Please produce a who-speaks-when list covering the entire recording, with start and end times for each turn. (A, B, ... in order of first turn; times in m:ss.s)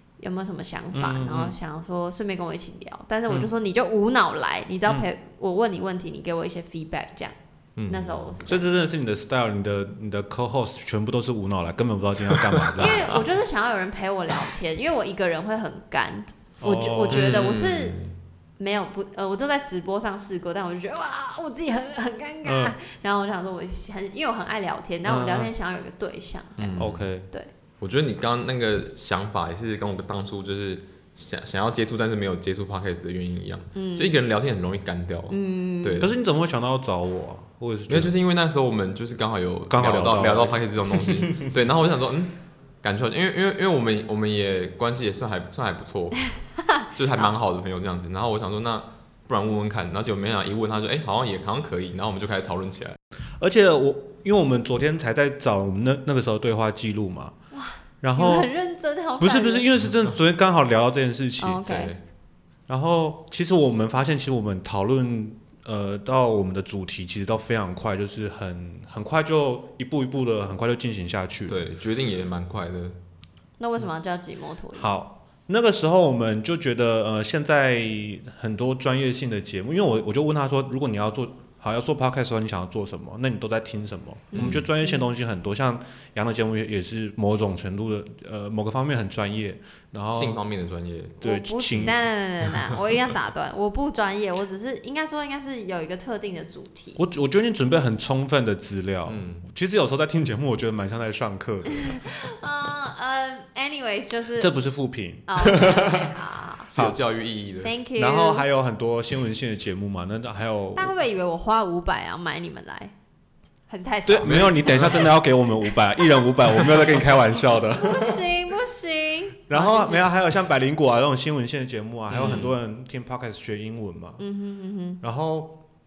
0:00.2-0:07.3 A
0:00.9-0:01.6 B
0:07.8-0:08.3 C
0:07.9-0:08.7 A
0:08.4-0:13.2 B
0:12.3-0:13.2 C
0:12.8-0:18.0 A
0:16.6-0:17.3 B
0:17.1-0:18.2 C
0:18.6-0:27.5 A
0:22.4-0:22.8 B
0:25.0-0:25.5 B
0:26.6-0:27.0 C
0:26.8-0:27.3 B
0:27.8-0:36.1 C
0:33.7-0:34.1 A
0:35.3-0:36.0 A
0:36.0-0:38.1 B
0:37.9-0:46.3 C
0:39.7-0:41.5 B
0:46.9-0:53.0 C
0:53.4-0:57.4 B
0:57.5-0:59.7 A
0:58.0-0:58.5 B
0:59.2-1:01.6 B
1:01.4-1:01.9 A
1:01.6-1:02.0 C
1:02.7-1:11.6 B
1:11.5-1:13.0 C
1:13.6-1:14.9 A
1:14.8-1:30.4 B
1:24.3-1:24.6 C
1:24.3-1:25.0 A
1:30.1-1:31.2 C
1:31.2-1:32.0 B
1:31.2-1:37.0 A
1:37.0-1:42.0 B
1:39.0-1:39.5 C
1:41.7-1:44.5 A
1:44.4-1:46.1 B
1:45.3-1:46.7 A
1:46.7-1:47.7 C
1:46.7-1:47.0 B
1:47.6-1:48.5 A
1:48.0-1:50.9 B
1:50.8-1:52.9 A
1:53.7-1:55.2 A
1:54.0-1:58.2 B
1:54.2-1:55.0 C
1:57.7-2:00.1 A
1:59.5-2:04.2 B
2:02.1-2:02.5 C
2:02.2-2:02.5 A
2:04.2-2:05.0 A
2:05.0-2:05.6 B